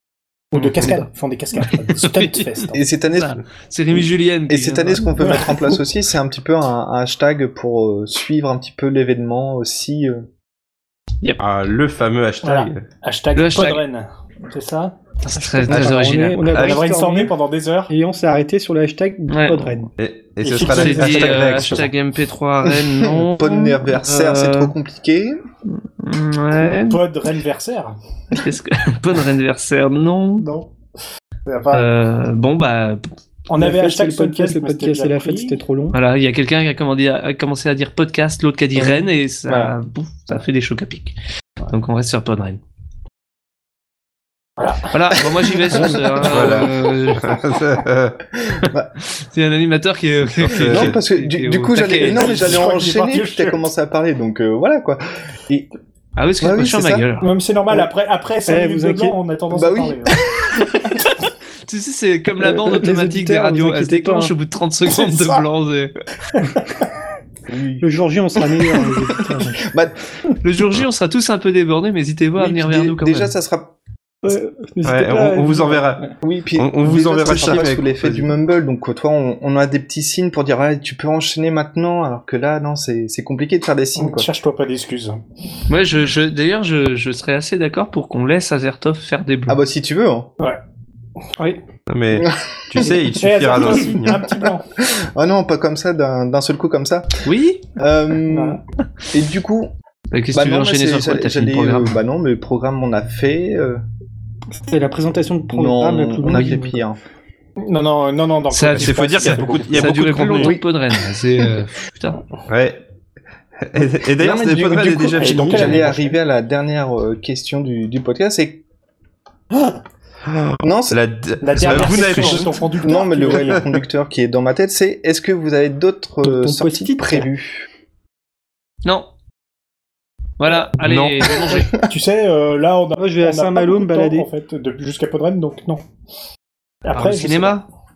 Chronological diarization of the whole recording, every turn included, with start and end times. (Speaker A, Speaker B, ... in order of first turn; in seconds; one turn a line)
Speaker A: 0.5-2.8
Speaker B: 0.5-1.1
Speaker B: 1.6-2.4
Speaker C: 2.7-3.4
Speaker B: 3.1-5.3
Speaker C: 4.5-10.2
Speaker A: 5.2-5.6
Speaker D: 11.4-12.8
Speaker A: 12.4-14.9
Speaker B: 13.3-13.8
Speaker B: 15.2-16.6
Speaker E: 15.4-17.3
Speaker A: 16.5-17.9
Speaker E: 17.9-19.9
Speaker B: 19.3-19.8
Speaker D: 20.0-21.9
Speaker A: 20.4-21.8
Speaker B: 20.6-24.7
Speaker E: 20.9-21.8
Speaker C: 23.0-25.4
Speaker B: 25.7-27.0
Speaker A: 26.7-27.9
Speaker B: 28.3-30.5
Speaker A: 30.4-30.7
Speaker A: 31.4-31.9
Speaker B: 31.7-33.1
Speaker A: 33.5-35.6
Speaker E: 33.6-36.0
Speaker B: 35.9-41.1
Speaker B: 41.7-42.6
Speaker A: 44.6-46.6
Speaker B: 44.9-47.3
Speaker D: 46.2-48.2
Speaker C: 48.5-48.9
Speaker B: 49.3-52.6
Speaker D: 50.4-51.0
Speaker C: 50.6-55.7
Speaker A: 52.0-53.6
Speaker B: 56.1-57.3
Speaker C: 56.4-57.0
Speaker A: 57.2-60.1
Speaker E: 58.5-59.1
Speaker C: 59.5-61.0
Speaker B: 61.7-65.9
Speaker E: 62.4-64.3
Speaker C: 67.5-67.8
Speaker E: 67.8-69.7
Speaker C: 68.4-70.0
Speaker B: 70.4-73.3
Speaker C: 72.4-73.7
Speaker E: 74.2-76.1
Speaker D: 74.8-76.0
Speaker C: 76.2-84.3
Speaker D: 76.5-78.3
Speaker A: 84.0-85.2
Speaker B: 85.7-89.6
Speaker C: 89.5-90.3
Speaker D: 91.9-94.2
Speaker C: 92.1-97.1
Speaker A: 93.1-94.6
Speaker B: 97.2-97.6
Speaker C: 97.8-98.6
Speaker A: 98.3-98.6
Speaker C: 99.1-99.7
Speaker B: 100.1-102.0
Speaker C: 100.3-103.8
Speaker E: 104.7-106.8
Speaker C: 105.5-107.0
Speaker A: 107.6-109.9
Speaker B: 108.5-112.2
Speaker D: 108.7-110.6
Speaker C: 110.3-110.6
Speaker D: 112.5-112.8
Speaker D: 113.6-115.9
Speaker C: 114.2-118.6
Speaker A: 115.2-116.2
Speaker D: 120.3-122.5
Speaker C: 120.6-121.0
Speaker A: 121.4-123.7
Speaker B: 121.5-122.5
Speaker C: 121.8-127.7
Speaker E: 126.2-127.3
Speaker B: 130.4-131.7
Speaker D: 130.8-131.6
Speaker C: 131.5-131.7
Speaker A: 131.9-135.8
Speaker E: 133.0-134.3
Speaker A: 136.8-137.6
Speaker B: 136.9-137.6